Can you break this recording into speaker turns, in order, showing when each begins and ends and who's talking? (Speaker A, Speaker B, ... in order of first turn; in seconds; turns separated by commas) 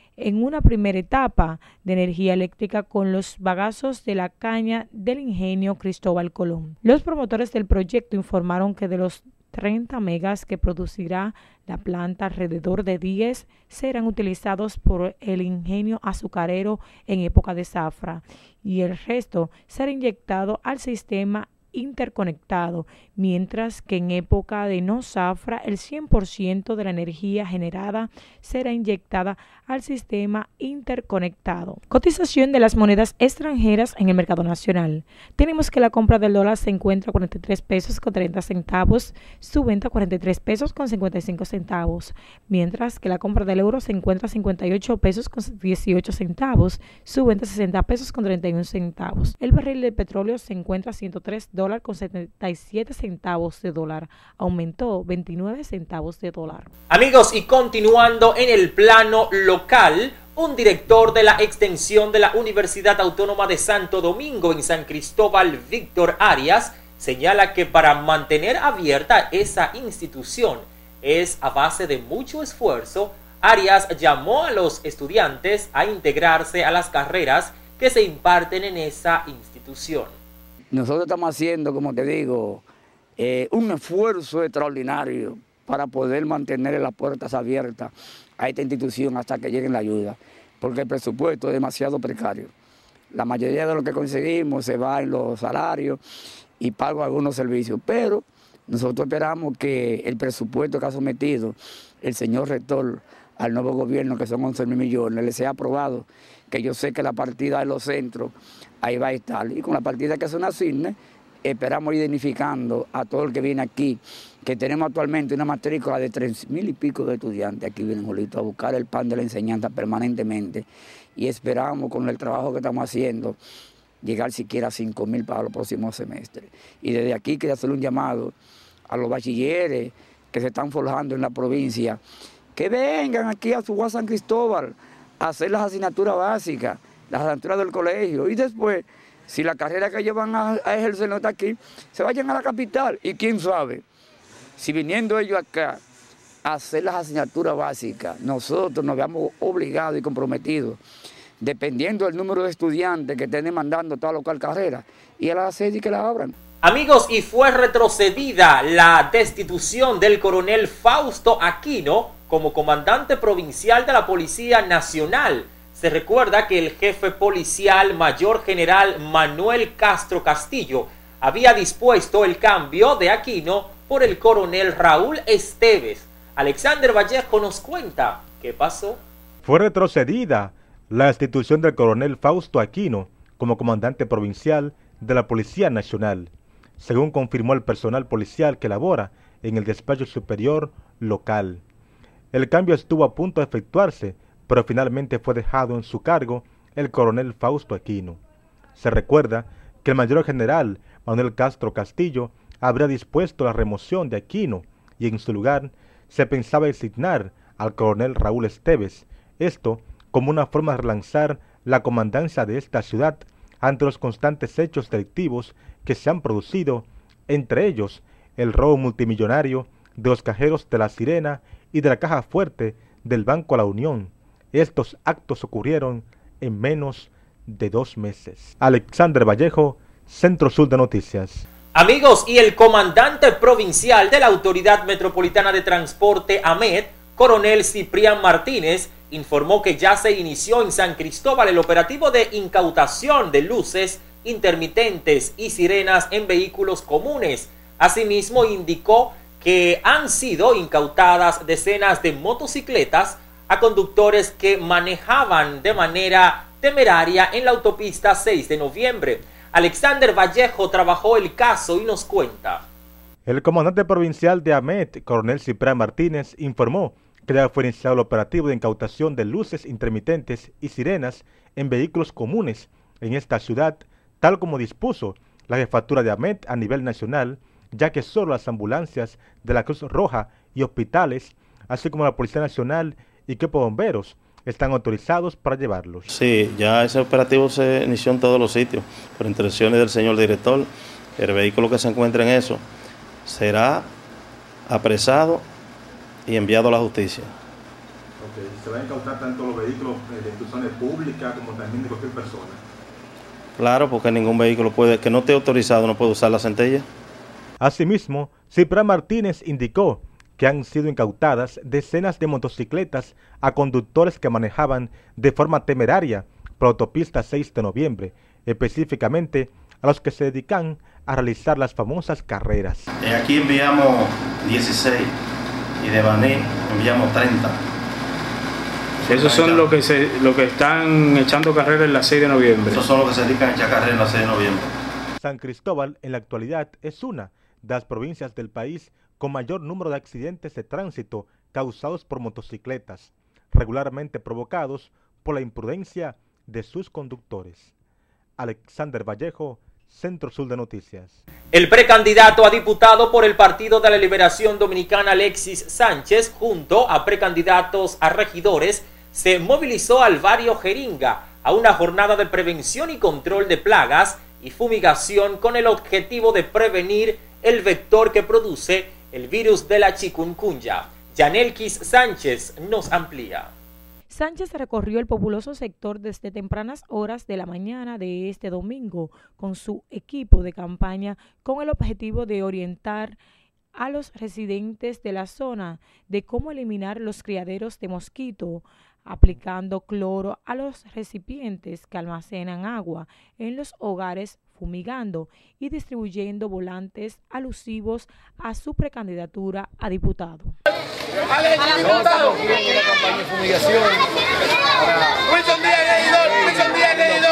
Speaker A: 0.2-56.7, Speaker B: 56.9-80.1, Speaker C: 80.7-82.6, Speaker C: 83.2-92.5, Speaker C: 93.1-96.0, Speaker C: 96.6-123.4, Speaker C: 124.0-128.3, Speaker C: 128.9-132.0, Speaker C: 132.6-143.8, Speaker C: 144.6-145.8, Speaker C: 146.4-150.8, Speaker C: 151.4-156.3, Speaker B: 156.6-179.0, Speaker D: 179.4-191.6, Speaker D: 192.3-198.2, Speaker D: 198.8-231.4, Speaker B: 231.7-262.6, Speaker D: 263.3-286.1, Speaker E: 286.1-292.6, Speaker E: 293.3-293.9, Speaker E: 294.7-295.4, Speaker E: 296.3-297.3, Speaker D: 298.2-302.6, Speaker E: 303.6-306.9, Speaker D: 307.6-322.9, Speaker E: 323.0-325.1, Speaker E: 325.8-327.6, Speaker E: 329.1-329.7, Speaker F: 329.3-332.7, Speaker E: 332.7-334.7, Speaker D: 335.2-347.7, Speaker D: 348.4-351.2, Speaker B: 351.5-373.5, Speaker A: 374.1-383.2, Speaker A: 383.8-400.6